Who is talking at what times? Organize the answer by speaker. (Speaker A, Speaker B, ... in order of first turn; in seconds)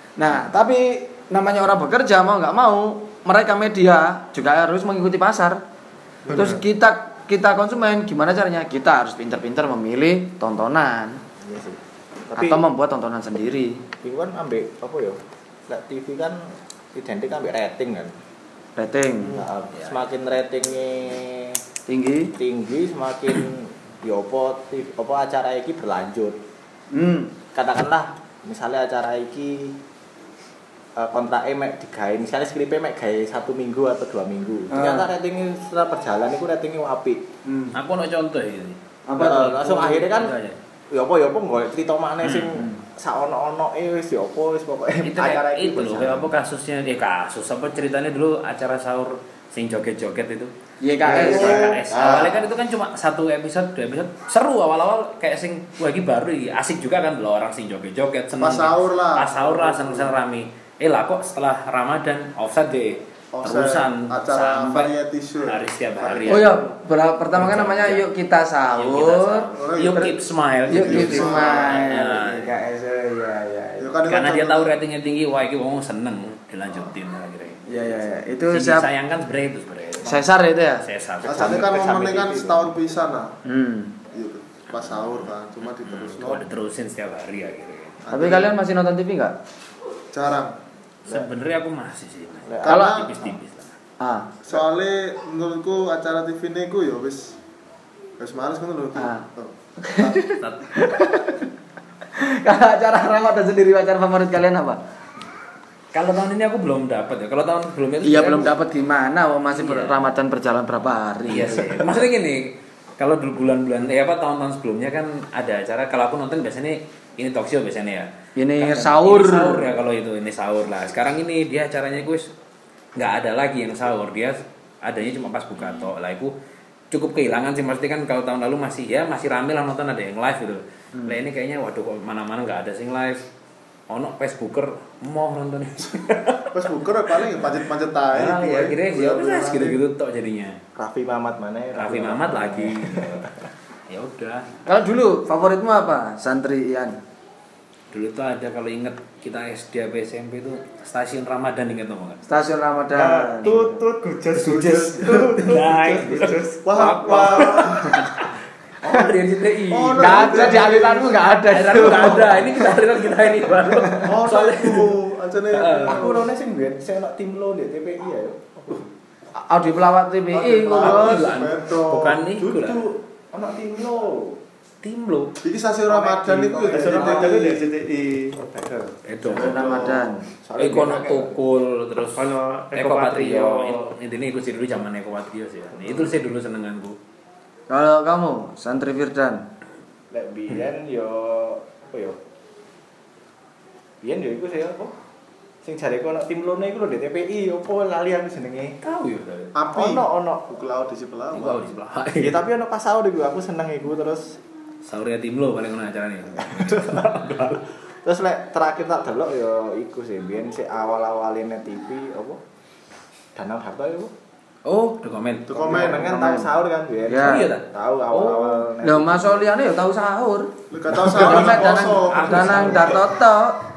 Speaker A: 0.2-5.6, 6.3-11.2, 12.4-13.8, 18.8-19.4, 21.9-22.3, 26.9-27.3, 34.7-35.1, 37.5-37.8, 39.1-40.0, 50.8-51.7, 66.3-70.2, 70.7-73.8, 77.7-78.9, 80.0-80.8, 83.5-83.9, 88.1-89.3, 92.7-93.0, 94.0-94.3, 99.0-99.3, 99.8-101.5, 102.2-104.8, 108.0-112.1, 118.3-119.7, 144.7-147.0, 152.3-153.8, 159.9-162.8, 169.3-171.1, 179.3-180.2, 187.7-189.4, 215.9-216.5, 217.1-217.5, 218.8-223.6
Speaker B: 11.4-12.7, 14.0-18.1, 19.3-21.6, 22.3-26.4, 27.5-29.8, 31.0-37.2, 39.2-40.4, 40.9-46.3, 51.1-52.5, 81.2-82.8, 92.5-92.8, 140.8-143.3, 165.8-168.8, 172.4-174.4, 175.9-177.7, 178.4-179.0, 180.4-181.4, 190.1-192.2, 194.0-194.9, 195.6-198.8, 199.7-200.5, 202.2-204.4, 206.3-207.2, 208.0-212.4, 213.3-214.1, 215.5-219.5
Speaker C: 37.7-40.6, 42.2-42.5, 45.0-50.5, 51.1-66.7, 67.3-68.0, 68.7-72.6, 74.1-77.6, 78.5-80.3, 80.8-81.6, 85.6-88.0, 91.0-93.7, 100.4-100.7, 105.9-108.5, 109.5-110.2, 111.3-122.3, 123.0-126.3, 126.9-133.2, 133.9-136.4, 138.1-140.6, 141.8-143.3, 143.9-144.5, 147.9-152.2, 155.4-158.1, 158.8-160.8, 161.5-164.9, 165.5-166.1, 170.7-172.8, 174.8-175.3, 179.1-179.6, 180.6-187.0, 198.8-199.5, 201.3-202.4, 204.8-207.7, 214.7-215.5, 217.2-218.7, 221.2-222.9
Speaker D: 51.1-52.0, 58.4-60.2, 63.3-66.5, 69.5-72.0, 73.8-74.8, 81.2-83.3, 84.1-86.5, 88.0-88.5, 90.1-90.5, 92.6-93.2, 94.4-97.4, 98.2-99.5, 136.5-139.8, 154.4-155.4, 156.2-158.1, 159.7-162.3, 163.9-166.3, 170.3-172.2, 175.4-177.5, 179.2-180.1, 199.5-201.7, 215.5-216.1, 220.7-223.2
Speaker E: 152.9-157.5, 176.3-178.4, 182.2-183.8